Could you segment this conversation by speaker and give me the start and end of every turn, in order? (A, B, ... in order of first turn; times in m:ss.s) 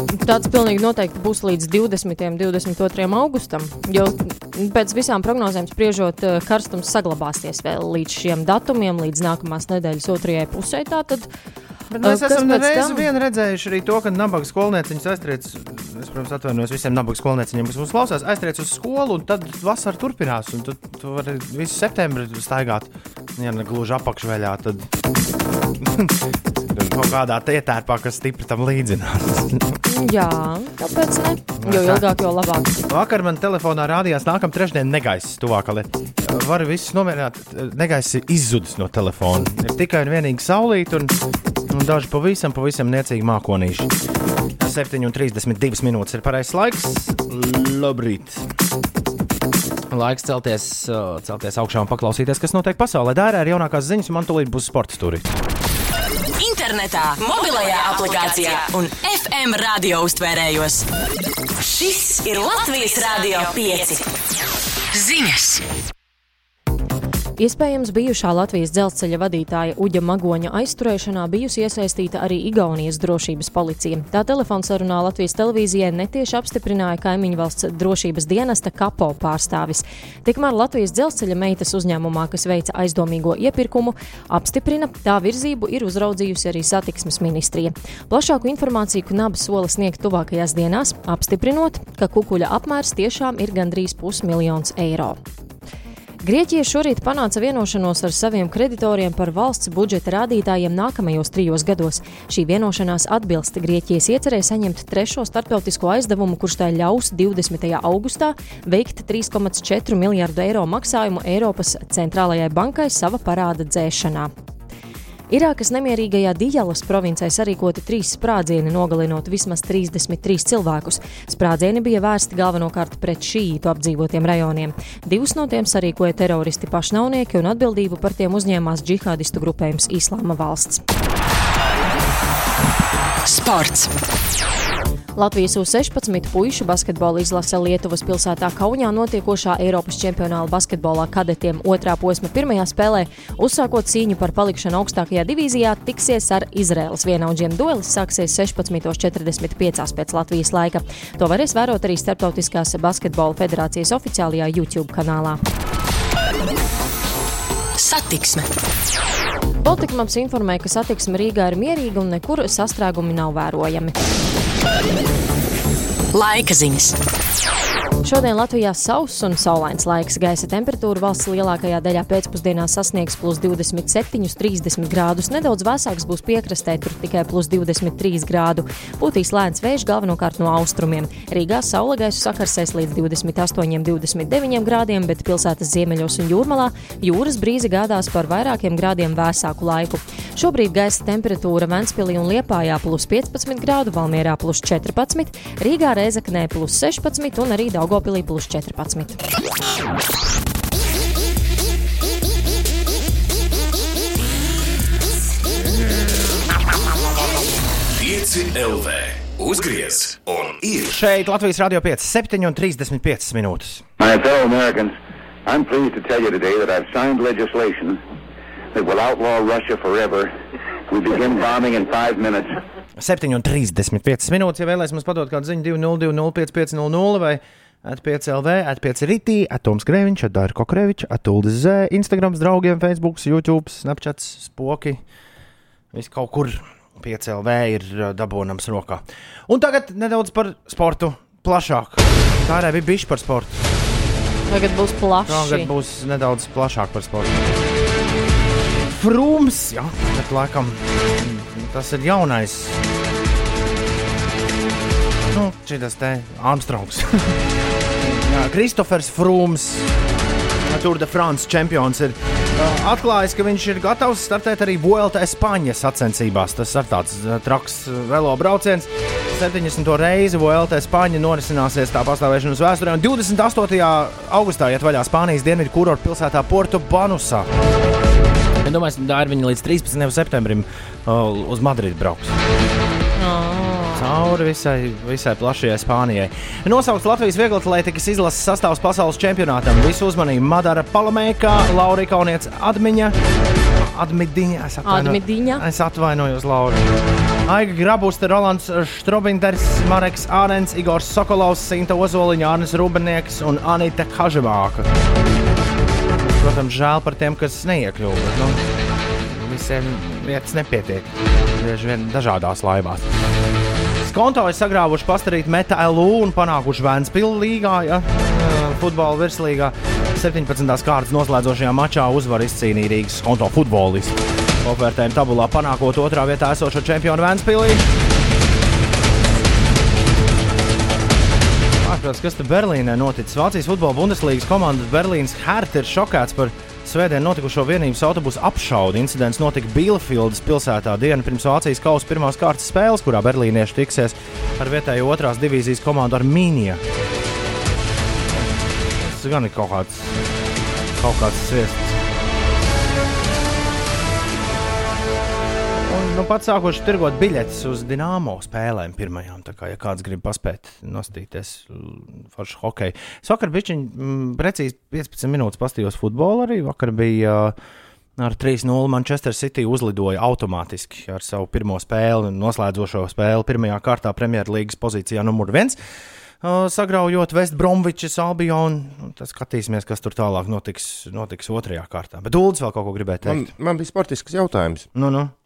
0:00.2-0:11.3 A
0:11.9-0:24.9 B
0:12.0-0:13.1 A
0:25.8-0:26.1 B
0:26.7-0:27.2 C
0:26.9-0:29.8 B
0:29.9-0:32.8 A
0:31.6-0:32.0 B
0:32.9-0:41.1 B
0:41.7-0:43.9 B
0:44.6-0:48.5 B
0:49.9-0:55.3 B
0:56.4-1:00.8 D
1:01.6-1:04.1 D
1:04.9-1:05.6 D
1:07.4-1:35.2 A
1:36.2-1:54.3 A
1:55.3-2:10.8 A
2:13.2-2:13.9 D
2:15.2-2:35.4 A
2:37.8-2:38.5 D
2:39.6-2:43.9 A
2:46.1-2:47.0 D
2:48.0-3:19.2 A
3:27.9-3:31.0 E
3:30.8-3:33.8 B
3:34.0-3:34.9 F
3:35.4-3:38.0 F
3:38.7-3:40.3 F
3:40.9-3:42.6 F
3:43.0-3:55.0 B
3:55.9-4:03.6 B
4:04.5-4:05.7 A
4:05.3-4:07.6 B
4:08.9-4:12.8 B
4:15.3-4:17.3 B
4:18.2-4:19.9 B
4:20.7-4:37.5 B
4:38.6-4:42.4 B
4:43.2-4:44.0 A
4:43.9-4:53.2 B
4:53.8-4:56.9 B
4:54.8-4:55.6 A
4:57.4-5:04.9 B
5:06.3-5:08.6 B
5:09.3-5:13.0 B
5:14.0-5:27.8 B
5:31.8-5:46.8 B
5:49.0-5:50.2 B
5:50.9-5:52.0 B
5:55.8-6:07.6 B
6:08.2-6:15.8 B
6:16.4-6:23.5 B
6:23.2-6:24.9 C
6:24.9-6:25.3 B